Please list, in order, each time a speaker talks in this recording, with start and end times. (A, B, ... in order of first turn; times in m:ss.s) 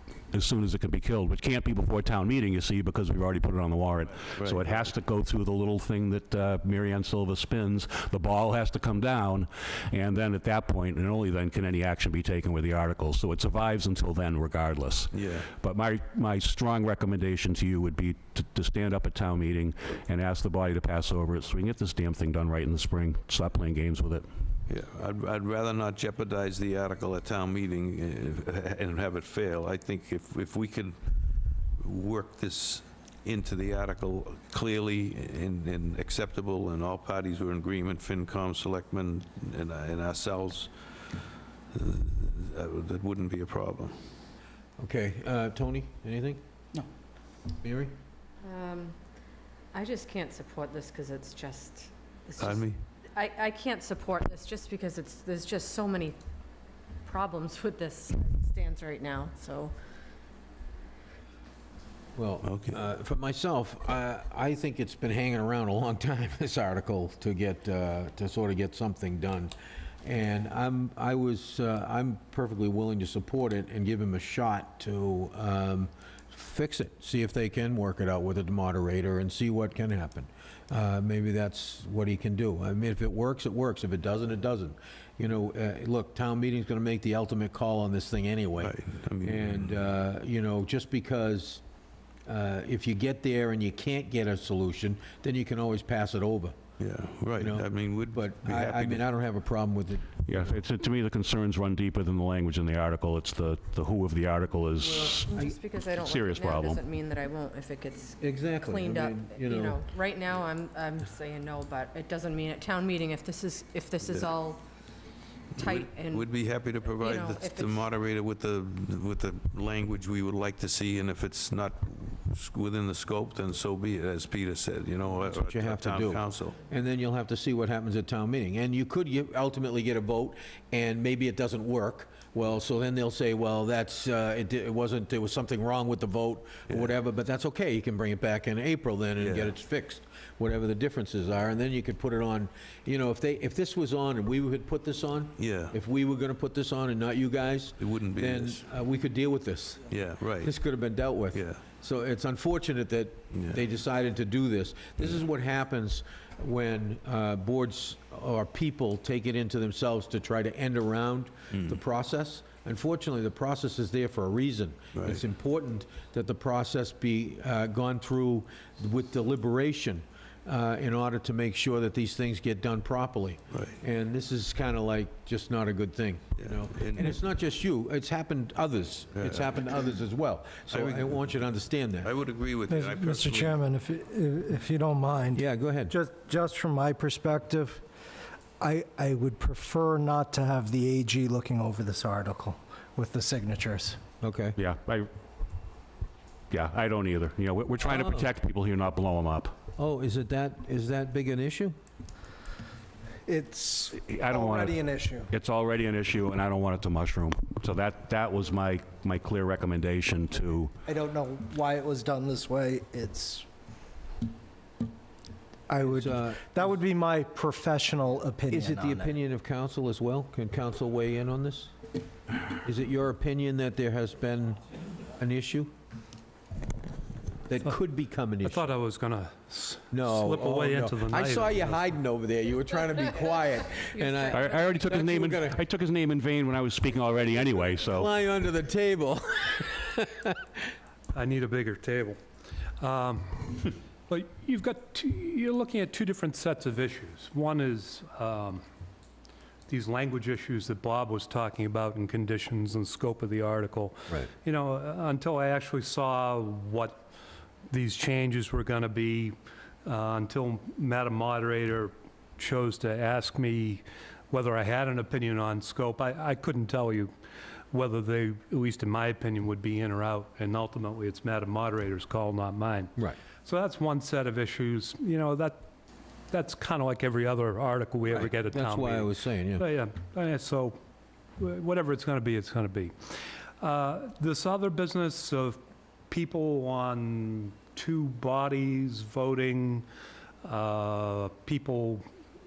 0:00.3-0:24.3 A
0:04.3-0:04.6 B
0:15.1-0:15.5 B
0:24.7-0:31.0 B
0:31.8-0:40.7 B
0:41.7-0:44.0 B
0:44.8-0:46.4 C
0:47.6-0:47.9 C
0:48.4-0:49.0 D
0:49.7-0:56.2 D
0:52.4-0:52.8 B
0:57.0-0:59.8 D
1:02.1-1:31.6 C
1:02.4-1:02.8 B
1:28.6-1:29.8 B
1:32.3-1:36.6 C
1:36.8-1:39.0 B
1:37.4-1:40.2 C
1:40.2-1:45.4 A
1:44.8-1:54.6 D
1:45.9-1:46.8 A
1:48.2-1:49.8 C
1:54.0-1:54.3 B
1:55.6-2:06.6 B
1:55.6-1:56.3 D
1:56.9-1:57.9 D
2:05.2-3:02.1 C
2:16.7-2:16.9 B
2:19.2-2:19.6 B
2:25.4-2:25.8 B
2:27.8-2:28.6 B
2:29.9-2:30.6 B
2:31.3-2:31.6 B
2:33.3-2:33.6 B
2:41.5-2:41.8 B
2:44.9-2:45.2 B
2:53.5-2:53.8 B
2:56.4-2:57.2 B
2:59.2-2:59.7 B
3:00.7-3:01.4 B
3:02.0-3:03.7 B
3:02.7-3:07.8 E
3:05.3-3:06.0 C
3:08.6-3:14.0 E
3:14.2-3:14.6 C
3:14.6-3:15.1 A
3:16.5-3:19.6 A
3:17.9-3:18.2 C
3:19.8-3:21.8 C
3:23.3-3:25.3 E
3:23.9-3:30.8 A
3:30.8-3:33.5 E
3:35.7-3:39.2 E
3:35.8-3:36.8 C
3:38.5-3:41.7 C
3:42.5-3:45.7 C
3:47.5-3:48.7 C
3:48.4-3:51.9 F
3:49.9-3:55.6 C
3:53.0-3:53.3 D
3:53.9-3:54.8 D
3:54.3-3:58.2 A
3:57.8-4:00.4 C
4:01.1-4:02.2 F
4:02.8-4:08.6 F
4:09.7-4:17.0 F
4:17.7-4:27.1 F
4:27.7-4:32.9 F
4:33.4-4:35.7 F
4:36.3-4:40.8 F
4:38.1-4:39.7 C
4:41.4-4:43.0 F
4:43.6-4:49.9 F
4:50.4-4:52.0 F